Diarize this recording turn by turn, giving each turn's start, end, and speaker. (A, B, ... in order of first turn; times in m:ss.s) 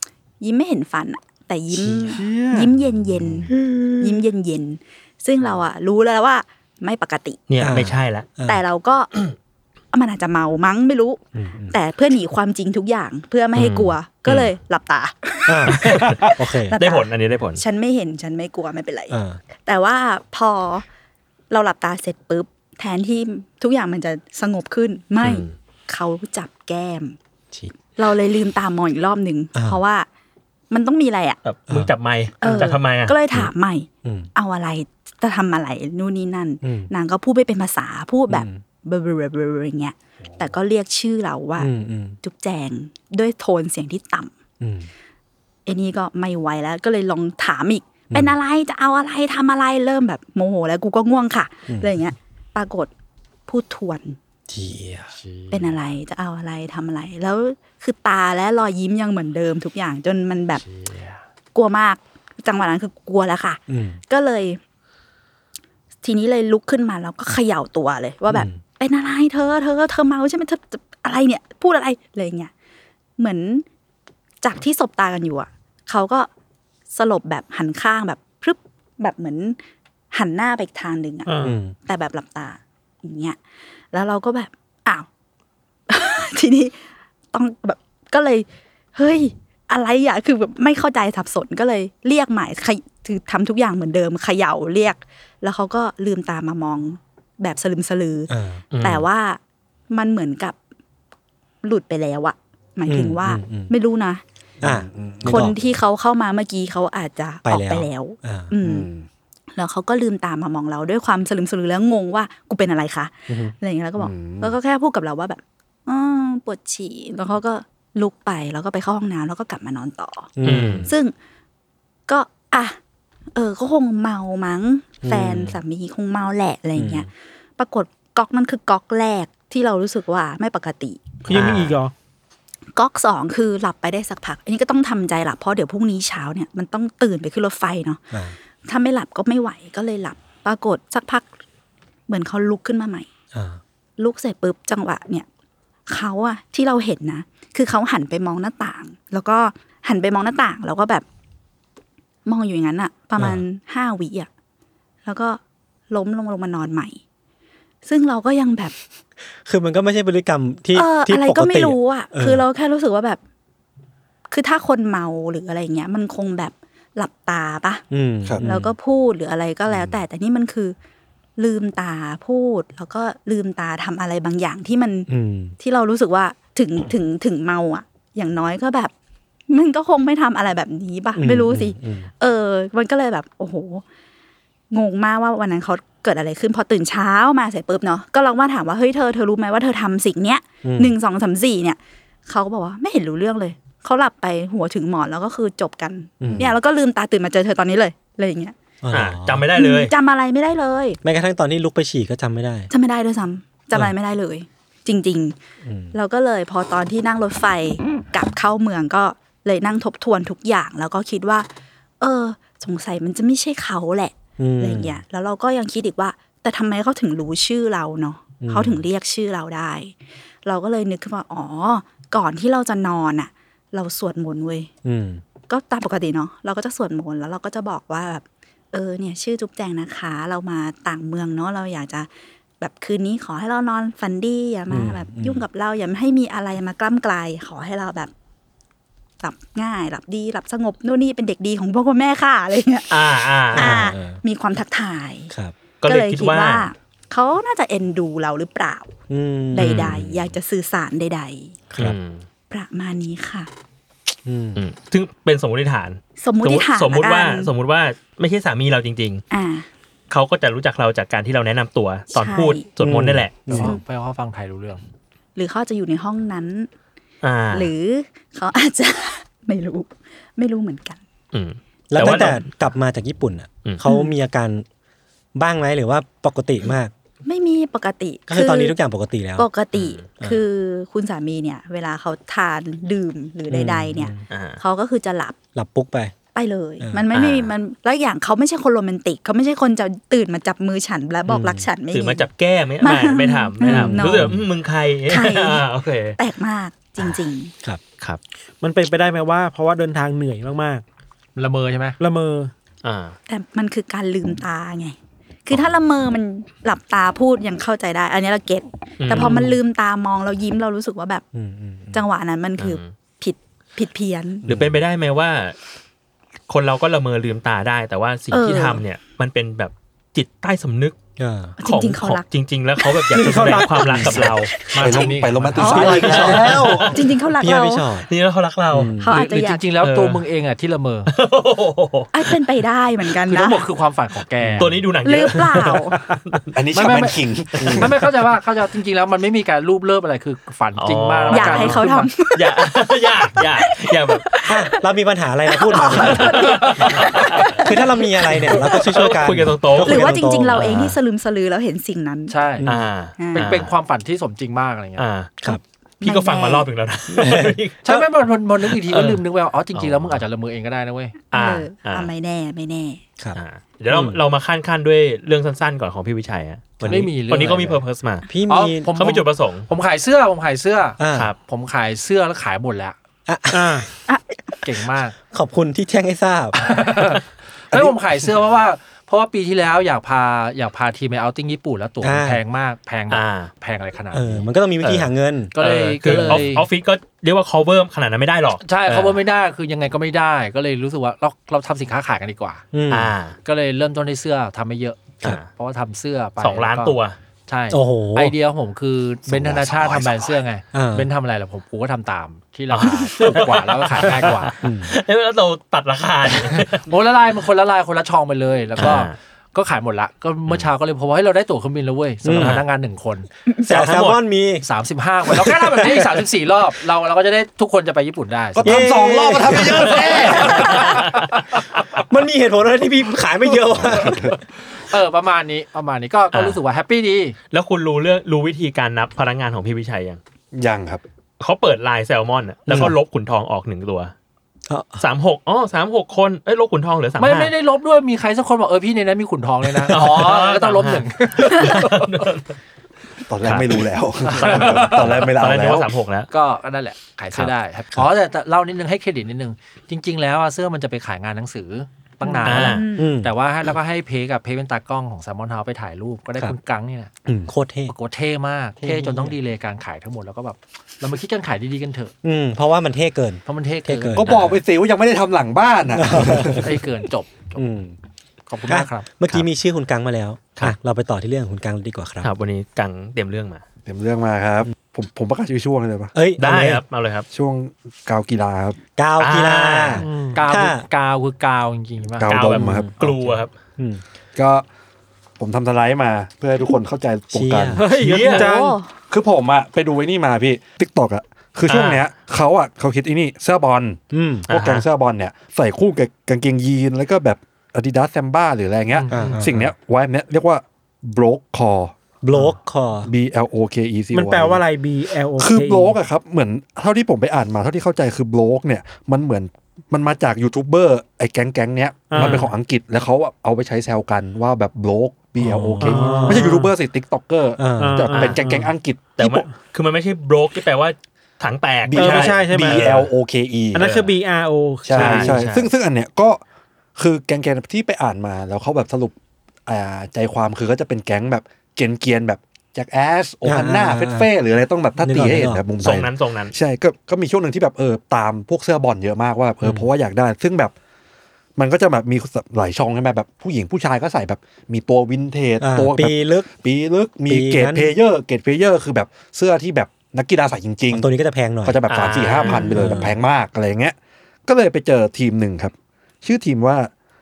0:00.4-0:07.4 A
0:02.0-0:02.7 B
0:07.5-0:08.3 C
0:07.6-0:08.6 D
0:08.4-0:09.1 A
0:09.9-0:11.2 A
0:11.3-0:11.7 D
0:11.7-0:20.8 A
0:13.5-0:14.5 C
0:15.5-0:16.7 D
0:15.8-0:16.2 C
0:16.8-0:17.6 C
0:19.1-0:19.4 D
0:21.5-0:27.2 A
0:25.2-0:25.5 C
0:28.0-0:30.1 A
0:29.5-0:29.8 D
0:30.7-0:31.4 A
0:31.4-0:33.2 C
0:32.4-0:41.7 A
0:34.0-0:34.3 D
0:36.6-0:36.9 D
0:38.3-0:38.6 D
0:41.6-0:42.2 D
0:42.2-0:44.3 A
0:44.6-0:44.9 D
0:45.6-0:52.9 A
0:53.5-0:54.2 A
0:54.5-0:55.1 D
0:55.1-0:55.7 E
0:55.5-1:00.6 A
1:00.5-1:01.2 E
1:01.5-1:04.6 A
1:03.7-1:04.0 D
1:06.0-1:12.5 A
1:08.3-1:08.6 D
1:13.2-1:13.6 A
1:14.4-1:16.3 A
1:16.9-1:19.6 A
1:20.1-1:23.4 A
1:21.2-1:21.6 B
1:21.4-1:21.7 D
1:23.9-1:25.1 A
1:25.9-1:26.8 A
1:27.3-1:39.4 A
1:38.3-1:38.6 D
1:38.7-1:39.0 C
1:39.9-1:40.6 A
1:41.6-1:44.2 A
1:42.9-1:43.7 D
1:44.6-1:45.4 F
1:44.6-1:45.5 D
1:45.2-1:48.9 A
1:47.4-1:48.5 D
1:48.6-1:49.1 F
1:49.6-2:00.3 A
1:53.3-1:53.5 D
1:54.0-1:54.5 F
2:00.4-2:00.9 D
2:00.4-2:00.9 C
2:00.8-2:01.1 A
2:02.1-2:02.8 A
2:03.3-2:11.0 A
2:05.0-2:05.6 D
2:06.8-2:07.1 D
2:11.2-2:11.9 B
2:11.3-2:11.8 C
2:12.7-2:18.0 A
2:18.7-2:21.3 A
2:22.1-2:23.1 A
2:23.3-2:23.6 D
2:24.0-2:25.3 A
2:25.9-2:31.0 A
2:32.2-2:34.3 A
2:33.2-2:33.4 D
2:35.0-2:37.0 A
2:37.8-2:38.7 A
2:39.4-2:42.4 D
2:40.7-2:43.2 A
2:44.3-2:47.8 A
2:47.9-2:48.7 D
2:48.4-2:50.7 A
2:49.7-2:50.0 F
2:51.4-2:58.9 A
2:55.1-2:55.6 D
2:59.5-3:03.8 A
3:01.2-3:02.1 D
3:04.7-3:18.5 A
3:10.6-3:10.9 D
3:16.2-3:16.5 D
3:18.8-3:19.5 D
3:18.9-3:19.9 C
3:19.5-3:21.0 A
3:21.0-3:22.7 D
3:22.7-3:25.4 A
3:25.6-3:25.9 D
3:25.9-3:31.5 A
3:32.0-3:39.9 A
3:34.4-3:35.0 D
3:38.4-3:38.8 D
3:40.4-3:44.7 A
3:44.8-3:45.2 D
3:45.5-3:52.1 A
3:52.6-3:58.1 A
3:54.7-3:55.4 D
3:59.2-4:02.9 A
4:02.9-4:03.8 C
4:03.5-4:05.3 A
4:03.5-4:04.2 D
4:05.8-4:06.7 C
4:05.8-4:08.9 A
4:09.1-4:10.2 D
4:09.5-4:11.5 A
4:09.6-4:10.0 C
4:11.7-4:12.0 D
4:11.8-4:12.2 C
4:12.5-4:13.5 A
4:14.2-4:14.6 D
4:14.6-4:19.2 C
4:16.2-4:17.5 A
4:19.3-4:19.7 A
4:20.1-4:23.6 C
4:22.1-4:22.6 A
4:22.8-4:23.7 D
4:23.4-4:24.8 E
4:25.4-4:26.7 A
4:27.2-4:27.7 C
4:27.5-4:31.0 A
4:31.3-4:32.4 C
4:31.9-4:34.6 D
4:33.8-4:34.1 A
4:35.3-4:36.9 D
4:37.2-4:38.8 A
4:38.3-4:39.5 D
4:39.4-4:45.4 A
4:39.7-4:40.1 C
4:43.5-4:44.2 D
4:44.3-4:44.6 C
4:45.5-4:46.1 D
4:46.3-4:52.3 A
4:47.1-4:47.5 C
4:51.3-4:51.7 D
4:51.9-4:56.2 C
4:52.8-4:54.4 A
4:53.6-4:54.4 D
4:55.1-4:57.5 A
4:58.6-5:00.8 B
5:01.4-5:02.0 E
5:02.0-5:02.5 B
5:02.8-5:03.2 C
5:03.3-5:11.2 A
5:09.0-5:09.5 C
5:11.3-5:12.0 D
5:11.9-5:14.4 A
5:12.6-5:12.9 C
5:14.5-5:14.7 D
5:14.5-5:15.6 C
5:16.5-5:21.0 C
5:18.3-5:18.8 A
5:21.2-5:21.6 D
5:21.6-5:22.2 A
5:21.6-5:24.5 C
5:23.2-5:23.7 B
5:23.2-5:24.4 D
5:24.6-5:26.3 A
5:24.7-5:26.6 E
5:24.8-5:26.5 F
5:25.6-5:28.1 D
5:25.9-5:27.0 C
5:26.9-5:27.9 A
5:28.1-5:29.0 C
5:28.7-5:29.1 D
5:29.0-5:29.6 A
5:29.0-5:31.1 E
5:29.8-5:30.2 C
5:31.1-5:32.3 C
5:32.1-5:33.6 A
5:33.2-5:34.8 E
5:34.4-5:34.7 D
5:34.6-5:36.5 C
5:35.0-5:36.0 A
5:36.5-5:38.0 F
5:36.7-5:42.1 E
5:37.6-5:37.9 D
5:40.8-5:44.3 C
5:41.3-5:42.7 A
5:43.6-5:44.7 A
5:44.4-5:46.4 D
5:45.5-5:48.8 A
5:46.0-5:47.6 C
5:47.6-5:50.9 D
5:48.5-5:50.9 C
5:49.8-5:52.4 A
5:52.3-5:52.7 E
5:52.6-5:53.7 C
5:53.2-5:53.4 A
5:53.3-5:55.0 E
5:55.0-5:55.4 C
5:56.0-5:56.7 A
5:56.0-6:00.2 C
5:57.1-5:57.5 D
5:57.8-6:01.2 E
6:01.3-6:03.0 A
6:01.3-6:02.1 C
6:03.4-6:08.3 C
6:03.9-6:04.2 D
6:06.8-6:07.1 D
6:06.8-6:07.8 E
6:08.3-6:08.9 D
6:08.4-6:13.0 E
6:08.9-6:09.7 C
6:11.0-6:11.3 D
6:13.3-6:13.9 D
6:13.5-6:13.9 B
6:14.6-6:15.2 E
6:15.3-6:16.6 D
6:16.6-6:17.2 E
6:17.7-6:18.0 F
6:17.7-6:24.5 E
6:22.0-6:22.4 D
6:23.1-6:23.5 C
6:24.1-6:26.5 D
6:25.5-6:26.7 E
6:25.6-6:29.2 C
6:28.6-6:32.7 E
6:32.7-6:33.1 D
6:32.9-6:33.4 C
6:33.4-6:44.5 E
6:35.2-6:35.5 C
6:36.4-6:37.2 C
6:37.7-6:38.3 D
6:39.3-6:40.4 F
6:40.7-6:41.1 D
6:42.7-6:46.8 C
6:44.6-6:44.9 D
6:46.8-6:53.3 E
6:48.8-6:49.0 D
6:48.8-6:49.1 C
6:52.2-6:52.6 D
6:52.4-6:52.7 C
6:53.6-6:54.6 D
6:53.6-6:54.2 C
6:54.6-6:59.0 E
6:55.3-6:56.1 D
6:58.5-7:01.0 F
6:58.6-7:00.7 D
6:59.6-7:01.3 C
7:00.2-7:00.7 E
7:02.1-7:04.3 D
7:03.7-7:04.4 F
7:04.9-7:07.4 E
7:06.3-7:06.6 C
7:07.5-7:10.2 C
7:10.5-7:11.0 F
7:11.4-7:14.1 C
7:12.7-7:12.9 D
7:14.7-7:15.0 D
7:15.0-7:17.5 C
7:17.2-7:22.2 E
7:19.7-7:22.5 C
7:23.3-7:25.9 F
7:23.4-7:26.3 C
7:24.2-7:25.1 E
7:26.3-7:37.1 E
7:32.4-7:32.8 C
7:32.4-7:33.1 A
7:33.0-7:33.3 D
7:37.2-7:37.9 D
7:37.9-7:42.1 E
7:38.8-7:39.3 D
7:42.2-7:44.5 D
7:43.4-7:44.4 E
7:44.2-7:46.7 F
7:45.9-7:46.7 D
7:46.6-7:47.6 E
7:47.5-7:47.9 D
7:48.5-7:49.1 E
7:48.7-7:52.3 D
7:52.2-7:53.6 C
7:53.8-7:56.1 F
7:56.1-7:56.8 D
7:56.4-7:57.3 C
7:57.3-7:58.8 F
7:59.0-8:00.8 D
7:59.2-8:00.1 C
8:00.0-8:00.4 B
8:00.1-8:03.0 E
8:02.2-8:02.9 F
8:02.2-8:03.5 C
8:02.5-8:02.9 D
8:03.8-8:04.0 D
8:04.4-8:04.6 F
8:05.4-8:07.8 F
8:07.3-8:07.8 D
8:07.8-8:08.8 B
8:08.0-8:08.5 C
8:08.4-8:08.9 A
8:09.1-8:22.4 F
8:11.7-8:12.0 C
8:14.1-8:14.5 D
8:14.5-8:14.8 C
8:18.9-8:19.4 E
8:19.1-8:19.7 D
8:22.2-8:23.1 D
8:23.0-8:24.6 F
8:24.1-8:25.9 B
8:25.4-8:39.4 F
8:32.1-8:32.4 B
8:32.2-8:32.5 C
8:35.4-8:36.6 D
8:35.8-8:36.7 B
8:37.6-8:38.6 D
8:37.8-8:38.4 B
8:38.1-8:38.4 C
8:39.2-8:43.1 C
8:41.9-8:43.9 F
8:41.9-8:42.9 B
8:43.7-8:45.3 B
8:43.8-8:44.1 C
8:44.8-8:46.4 F
8:44.9-8:45.7 C
8:47.0-8:49.1 F
8:49.6-9:00.7 F
8:53.4-8:54.3 D
8:55.0-8:55.6 D
8:55.8-8:56.5 C
9:01.6-9:11.1 F
9:05.6-9:06.5 D
9:07.3-9:07.9 D
9:10.9-9:11.8 D
9:11.6-9:16.9 F
9:11.9-9:13.0 C
9:12.4-9:12.8 A
9:12.7-9:13.1 D